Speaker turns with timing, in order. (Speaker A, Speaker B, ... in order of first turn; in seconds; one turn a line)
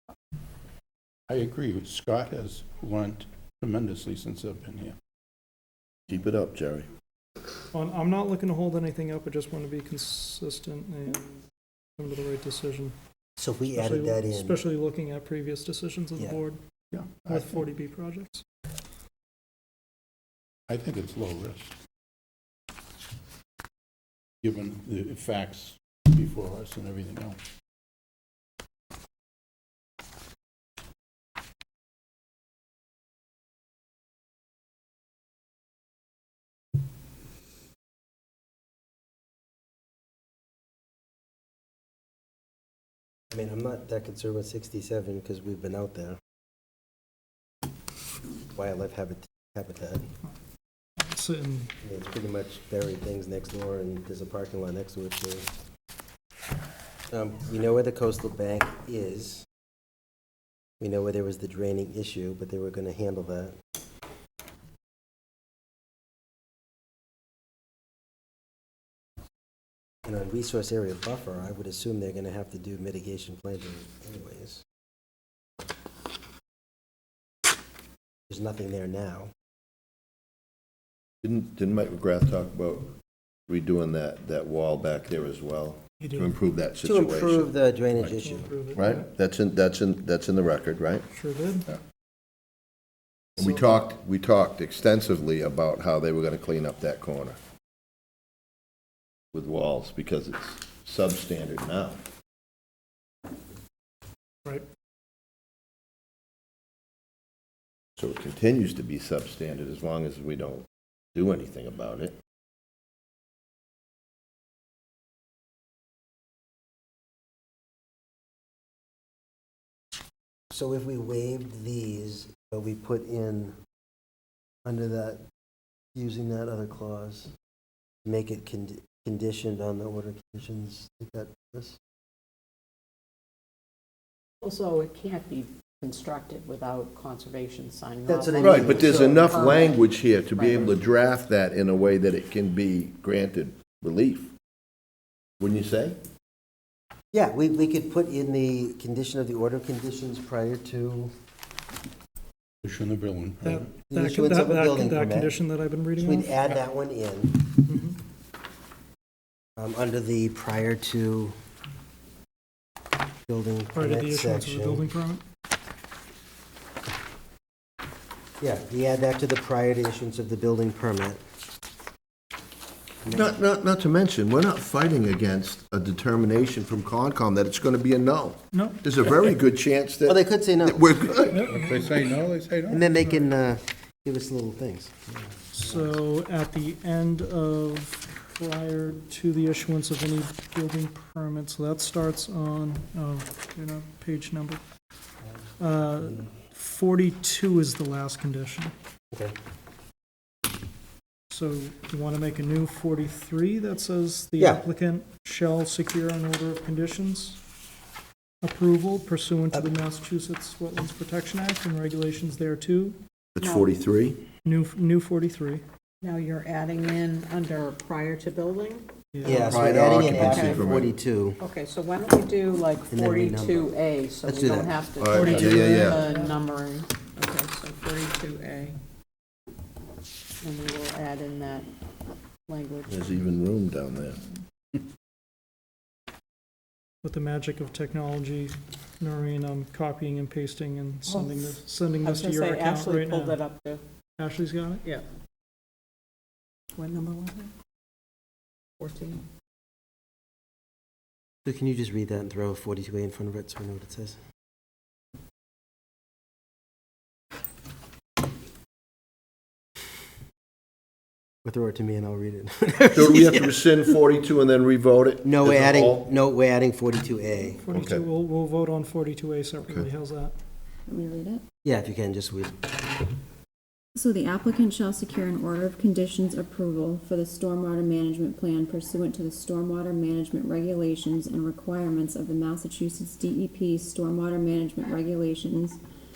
Speaker A: 1.3-5.0
Speaker B: 6.1-6.9
Speaker C: 7.7-12.9
Speaker D: 13.4-14.6
Speaker C: 13.7-16.6
Speaker D: 16.1-16.4
Speaker A: 16.9-17.6
Speaker C: 17.2-18.4
Speaker A: 20.7-21.8
Speaker A: 24.4-27.4
Speaker D: 43.3-46.2
Speaker D: 48.5-50.1
Speaker C: 51.0-51.7
Speaker D: 51.8-55.5
Speaker D: 57.1-59.5
Speaker D: 60.8-63.6
Speaker D: 70.0-74.6
Speaker D: 78.3-79.3
Speaker B: 81.2-82.9
Speaker B: 83.5-87.5
Speaker C: 86.0-86.3
Speaker D: 86.8-88.5
Speaker C: 88.2-89.1
Speaker B: 88.8-91.1
Speaker C: 91.1-91.8
Speaker B: 93.4-97.4
Speaker B: 99.3-102.0
Speaker B: 108.0-112.2
Speaker D: 120.5-123.5
Speaker D: 124.6-125.2
Speaker D: 125.9-127.3
Speaker D: 128.1-131.8
Speaker E: 134.4-139.8
Speaker D: 138.1-139.7
Speaker B: 138.4-144.3
Speaker E: 140.3-140.7
Speaker B: 145.4-146.0
Speaker D: 147.1-151.1
Speaker A: 152.6-153.8
Speaker C: 153.4-156.3
Speaker D: 153.9-155.4
Speaker D: 155.9-157.5
Speaker C: 157.7-158.0
Speaker D: 159.6-161.3
Speaker D: 163.3-164.9
Speaker C: 163.7-165.2
Speaker D: 168.4-171.2
Speaker D: 173.0-173.4
Speaker B: 173.1-181.6
Speaker C: 178.5-178.8
Speaker D: 180.1-180.9
Speaker C: 181.3-182.0
Speaker A: 181.5-183.0
Speaker D: 182.7-185.9
Speaker C: 185.5-194.6
Speaker C: 195.6-198.7
Speaker C: 201.3-207.4
Speaker D: 204.4-204.7
Speaker C: 208.4-213.0
Speaker B: 213.4-214.2
Speaker E: 213.4-213.7
Speaker C: 214.4-215.6
Speaker E: 216.0-218.8
Speaker C: 219.1-219.6
Speaker D: 219.2-221.4
Speaker B: 219.5-220.9
Speaker E: 220.1-220.7
Speaker E: 221.4-228.8
Speaker D: 222.9-224.8
Speaker B: 225.0-226.0
Speaker C: 225.1-226.3
Speaker E: 230.4-231.7
Speaker E: 232.5-233.1
Speaker B: 232.9-234.2
Speaker C: 237.0-243.4
Speaker E: 241.1-243.8
Speaker C: 244.2-244.8
Speaker E: 246.8-247.5
Speaker E: 248.8-249.2
Speaker D: 251.4-254.2
Speaker D: 261.4-263.6
Speaker B: 262.9-266.1
Speaker D: 265.2-267.7
Speaker C: 267.6-270.3
Speaker B: 267.7-268.1
Speaker F: 270.9-271.4
Speaker D: 271.6-272.8
Speaker F: 274.0-285.8